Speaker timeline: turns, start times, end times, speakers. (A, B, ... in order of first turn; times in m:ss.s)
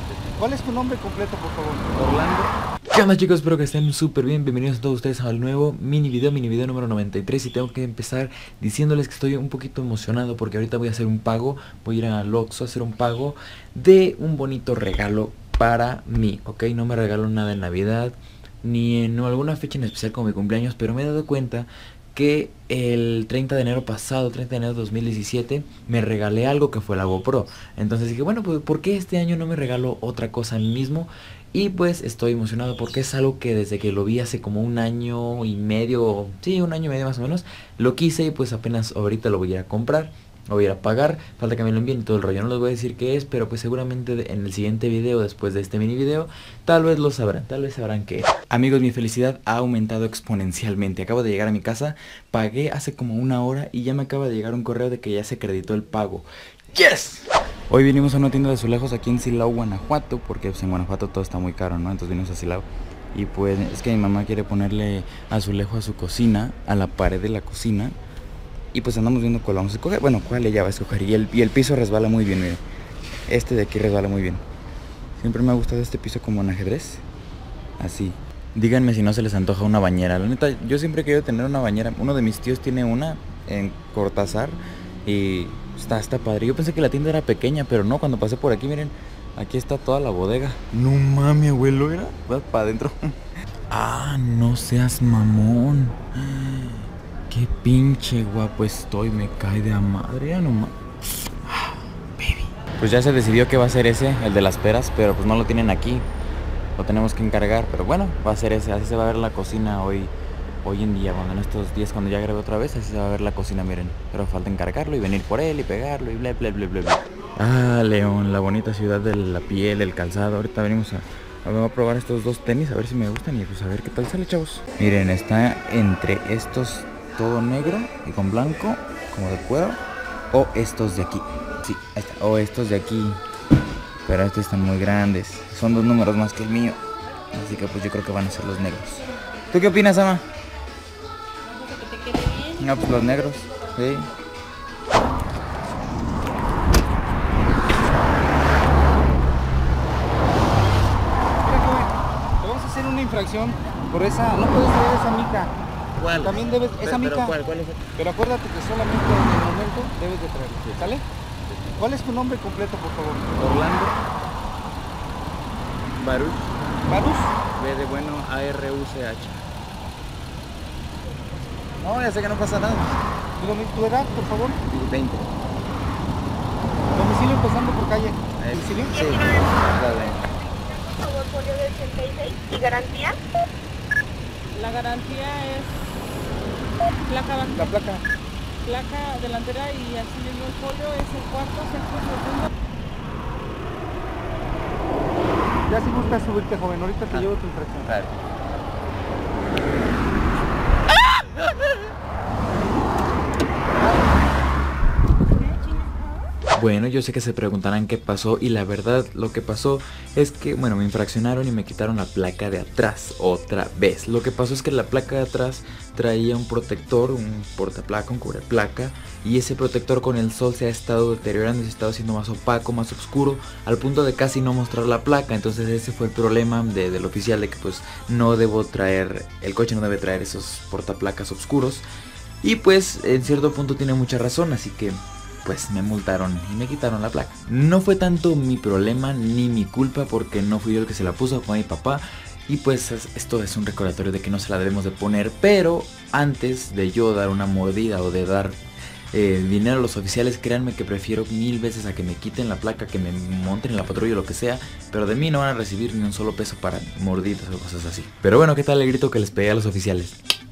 0:00.4-0:02.0 A
0:02.0-1:07.9 B
1:08.7-1:12.6 B
1:13.3-1:14.4 B
1:15.2-1:17.0 B
1:17.8-1:33.1 B
1:33.7-1:46.0 B
1:46.8-1:50.1 B
1:50.6-2:09.8 B
2:10.3-2:13.2 B
2:14.0-2:16.8 B
2:17.3-2:20.2 B
2:22.6-2:24.1 B
2:31.4-2:35.5 A
2:36.0-2:37.8 B
2:36.1-2:37.3 A
2:38.0-2:41.0 A
2:41.8-2:43.3 A
2:43.4-2:44.0 B
2:46.0-2:46.5 B
2:46.9-2:47.4 A
2:47.6-2:49.4 B
2:51.8-2:53.0 B
2:53.4-2:54.6 A
2:54.7-2:55.3 B
2:56.9-2:59.0 A
2:58.4-3:00.2 B
2:59.0-2:59.6 C
3:00.3-3:03.2 C
3:04.5-3:06.2 D
3:07.1-3:07.6 D
3:07.5-3:08.0 A
3:08.6-3:12.5 D
3:15.7-3:17.9 A
3:17.1-3:18.2 B
3:25.4-3:25.8 D
3:26.5-3:51.8 B
3:52.4-4:08.6 B
4:09.1-4:20.2 B